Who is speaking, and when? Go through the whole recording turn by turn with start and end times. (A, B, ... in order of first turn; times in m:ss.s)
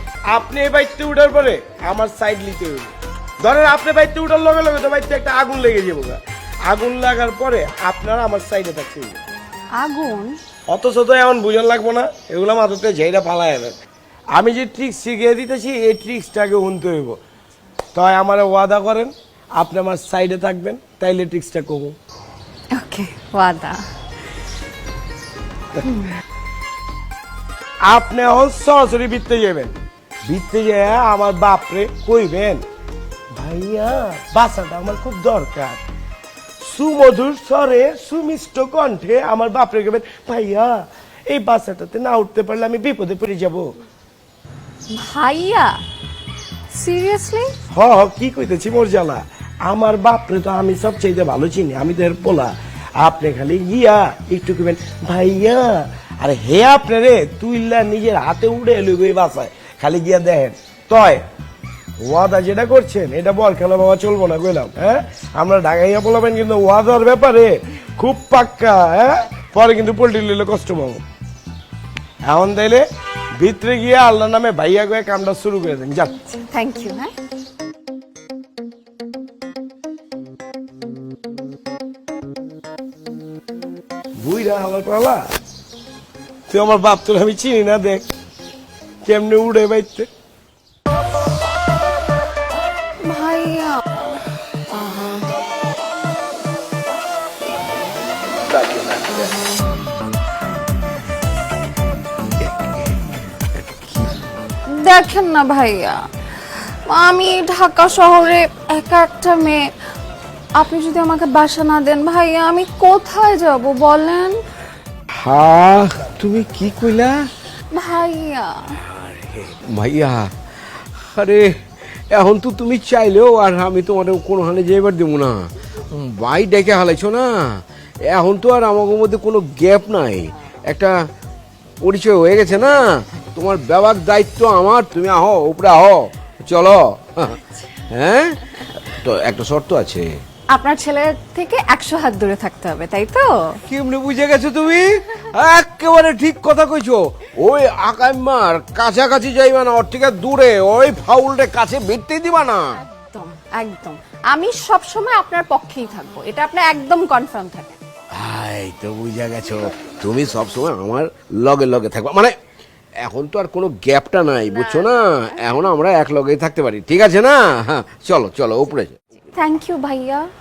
0:00.3-0:09.2 A
0:09.8-0:10.4 B
0:10.7-0:13.7 A
0:14.4-0:17.2 A
0:18.0-0:22.0 A
0:22.8-0:23.8 B
0:25.8-0:26.2 B
0:27.9-0:29.8 A
0:30.3-0:32.6 A
0:33.4-0:35.8 A
0:36.6-0:43.7 A
0:44.9-0:45.8 B
0:46.8-0:47.5 B
0:47.7-1:01.2 A
1:02.0-1:11.0 A
1:12.2-1:12.9 A
1:13.4-1:16.1 A
1:16.3-1:17.1 B
1:24.2-1:25.2 A
1:26.5-1:28.0 A
1:29.1-1:30.1 A
1:33.0-1:33.8 B
1:44.8-1:49.6 B
1:50.6-1:54.4 B
1:55.1-1:57.2 C
1:57.7-1:58.8 B
1:58.8-2:01.5 C
2:02.1-2:10.9 C
2:11.8-2:20.1 C
2:20.5-2:23.6 B
2:23.7-2:32.7 C
2:33.1-2:37.8 B
2:38.1-2:42.3 C
2:43.0-2:49.0 C
2:44.7-2:44.9 B
2:49.3-2:50.3 B